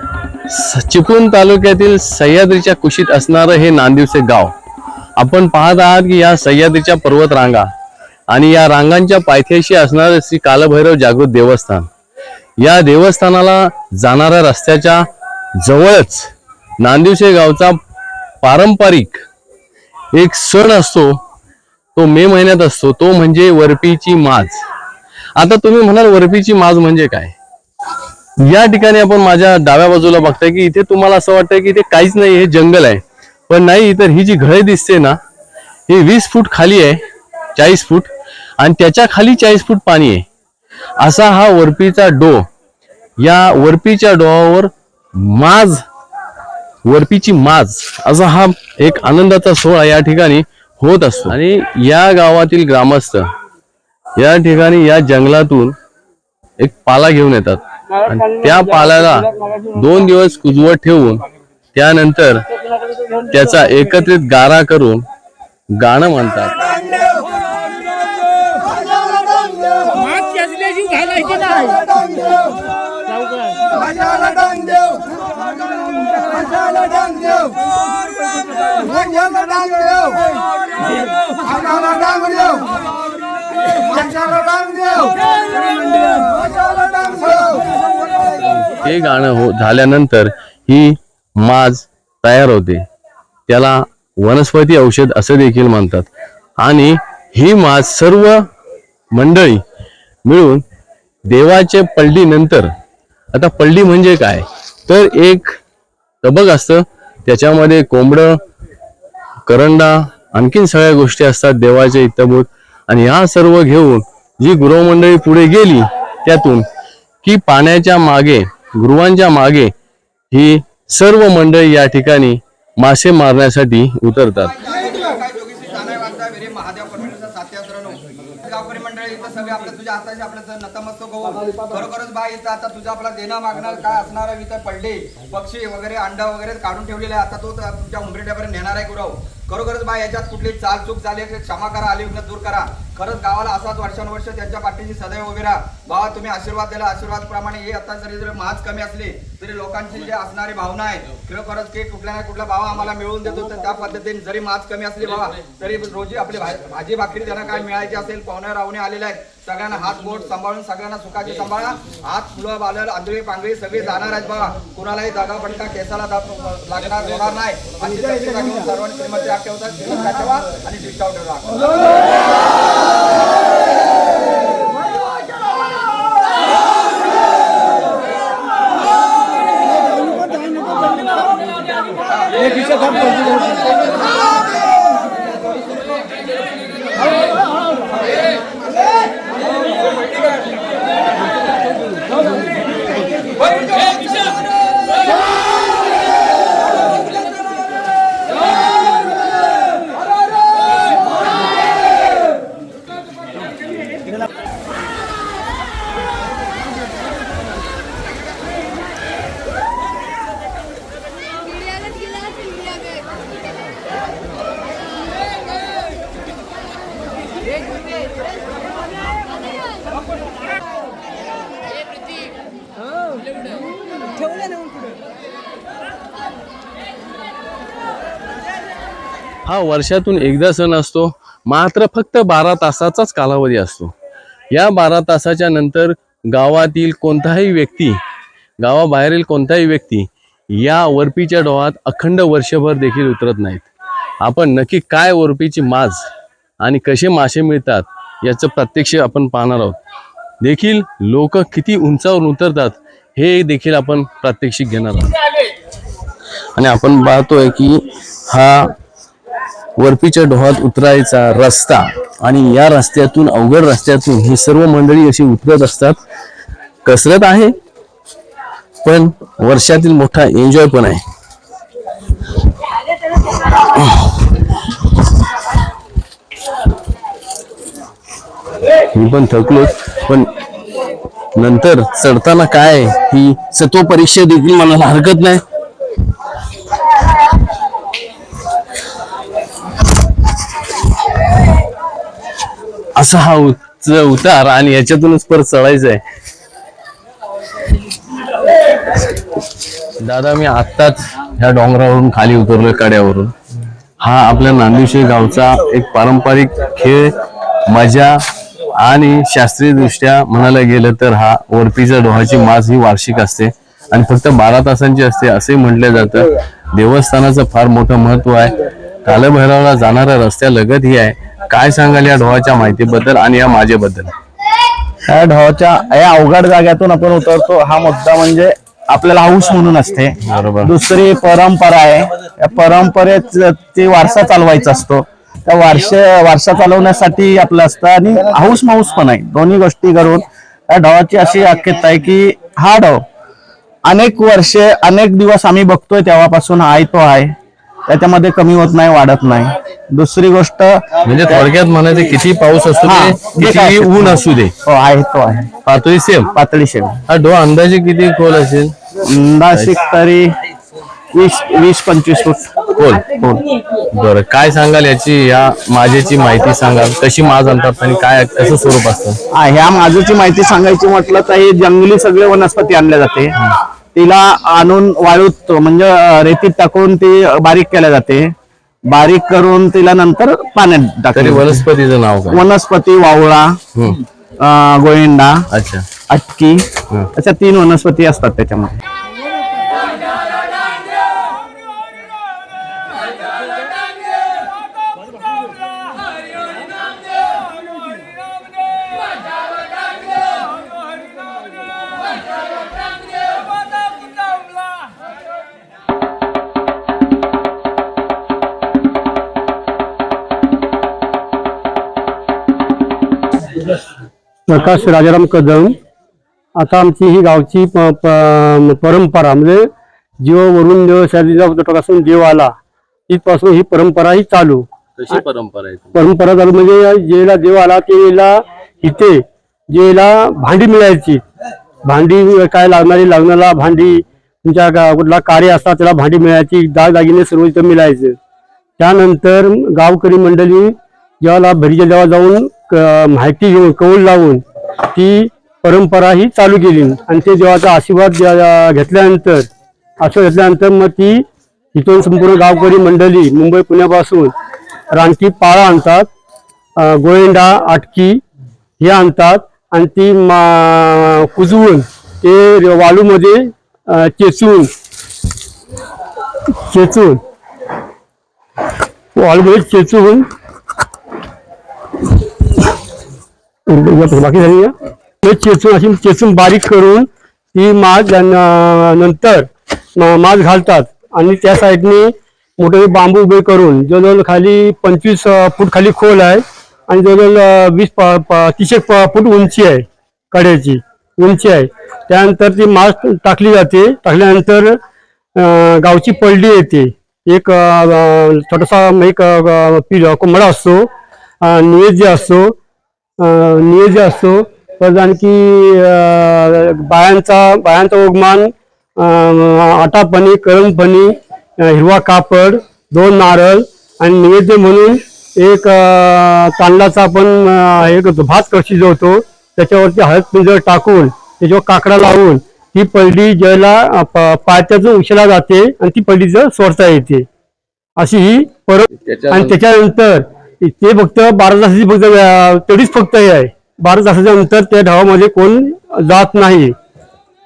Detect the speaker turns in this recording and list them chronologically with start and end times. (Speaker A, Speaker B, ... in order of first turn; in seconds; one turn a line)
Speaker A: 0.5-4.5
Speaker A: 5.2-7.7
Speaker A: 8.3-11.9
Speaker A: 12.6-15.0
Speaker A: 15.6-17.8
Speaker A: 18.4-19.2
Speaker A: 20.1-21.2
Speaker A: 21.9-24.6
Speaker A: 25.4-27.4
Speaker A: 28.4-35.2
Speaker A: 35.9-37.0
Speaker A: 37.6-40.2
Speaker A: 41.0-42.5
Speaker A: 43.2-45.8
Speaker A: 46.8-53.3
Speaker A: 54.2-55.8
Speaker A: 56.6-61.2
Speaker A: 61.7-62.4
Speaker A: 63.1-65.0
Speaker A: 65.8-67.2
Speaker A: 70.0-71.0
Speaker B: 81.7-82.4
Speaker A: 88.4-92.8
Speaker A: 93.5-96.1
Speaker A: 96.6-98.5
Speaker A: 99.2-99.6
Speaker A: 100.3-100.6
Speaker A: 101.3-102.7
Speaker A: 103.3-105.6
Speaker A: 106.2-108.4
Speaker A: 109.5-116.7
Speaker A: 117.2-119.7
Speaker A: 120.3-124.5
Speaker B: 124.3-171.7
Speaker B: 182.3-183.3
Speaker A: 229.5-233.9
Speaker A: 234.5-238.0
Speaker A: 238.6-243.7
Speaker A: 244.2-246.1
Speaker A: 246.6-249.8
Speaker A: 250.4-255.2
Speaker A: 256.5-258.7
Speaker A: 259.8-266.0
Speaker A: 266.8-267.6
Speaker A: 268.8-271.0
Speaker A: 273.5-274.4
Speaker A: 278.9-280.3
Speaker A: 281.4-285.4
Speaker A: 292.9-296.0
Speaker A: 300.0-303.3
Speaker A: 304.0-307.1
Speaker A: 307.7-308.2
Speaker A: 308.8-324.1
Speaker C: 325.1-343.0
Speaker A: 330.2-330.7
Speaker C: 343.9-347.3
Speaker C: 347.9-351.5
Speaker A: 351.0-354.5
Speaker C: 352.8-355.5
Speaker A: 355.6-356.3
Speaker C: 356.3-357.0
Speaker A: 357.1-358.7
Speaker C: 359.0-360.3
Speaker C: 361.1-362.5
Speaker A: 362.7-369.2
Speaker C: 369.3-373.4
Speaker C: 373.9-378.3
Speaker C: 378.9-381.6
Speaker A: 381.1-382.5
Speaker C: 382.3-383.6
Speaker C: 384.4-385.4
Speaker A: 385.5-385.9
Speaker C: 386.1-388.8
Speaker D: 414.5-415.7
Speaker D: 416.6-419.7
Speaker D: 420.2-422.5
Speaker D: 423.1-425.2
Speaker A: 425.0-425.9
Speaker D: 425.9-431.2
Speaker D: 431.9-438.1
Speaker D: 438.8-449.5
Speaker D: 450.0-454.3
Speaker D: 454.9-456.1
Speaker D: 456.8-458.2
Speaker D: 458.8-464.7
Speaker D: 466.7-467.2
Speaker D: 469.1-470.2
Speaker D: 473.7-494.8
Speaker D: 495.3-500.9
Speaker D: 501.4-502.5
Speaker D: 503.2-527.2
Speaker D: 528.0-536.7
Speaker A: 529.0-529.6